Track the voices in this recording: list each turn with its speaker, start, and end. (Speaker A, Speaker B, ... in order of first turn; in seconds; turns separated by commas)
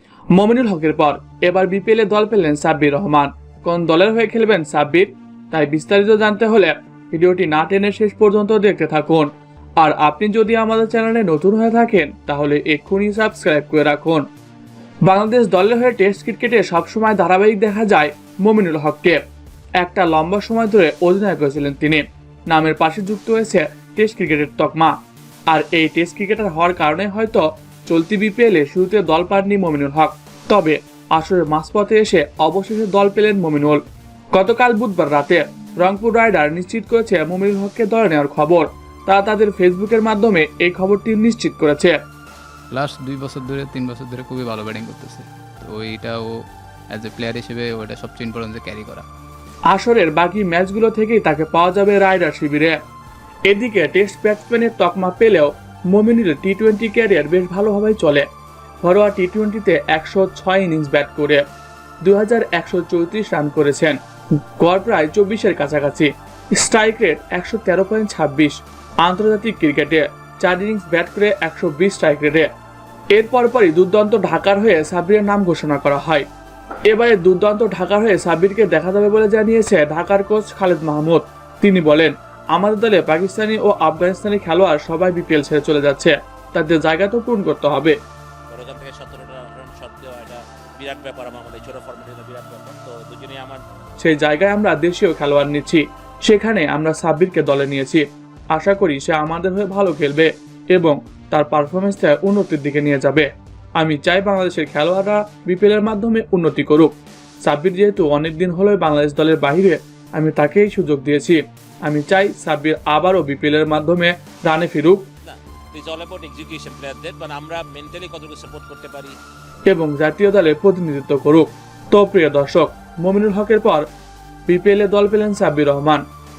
Speaker A: 0.3-14.2, Speaker A: 15.0-19.2, Speaker A: 19.8-24.9, Speaker A: 25.5-33.8, Speaker A: 34.3-42.0, Speaker B: 42.7-49.0, Speaker A: 49.7-52.8, Speaker A: 53.5-58.2, Speaker A: 58.8-61.4, Speaker A: 62.0-64.0, Speaker A: 64.6-72.5, Speaker A: 73.1-76.2, Speaker A: 76.9-87.9, Speaker C: 88.5-93.6, Speaker A: 94.0-103.3, Speaker A: 103.8-106.9, Speaker A: 107.5-115.0, Speaker C: 115.2-119.2, Speaker A: 119.7-123.8, Speaker A: 124.5-126.0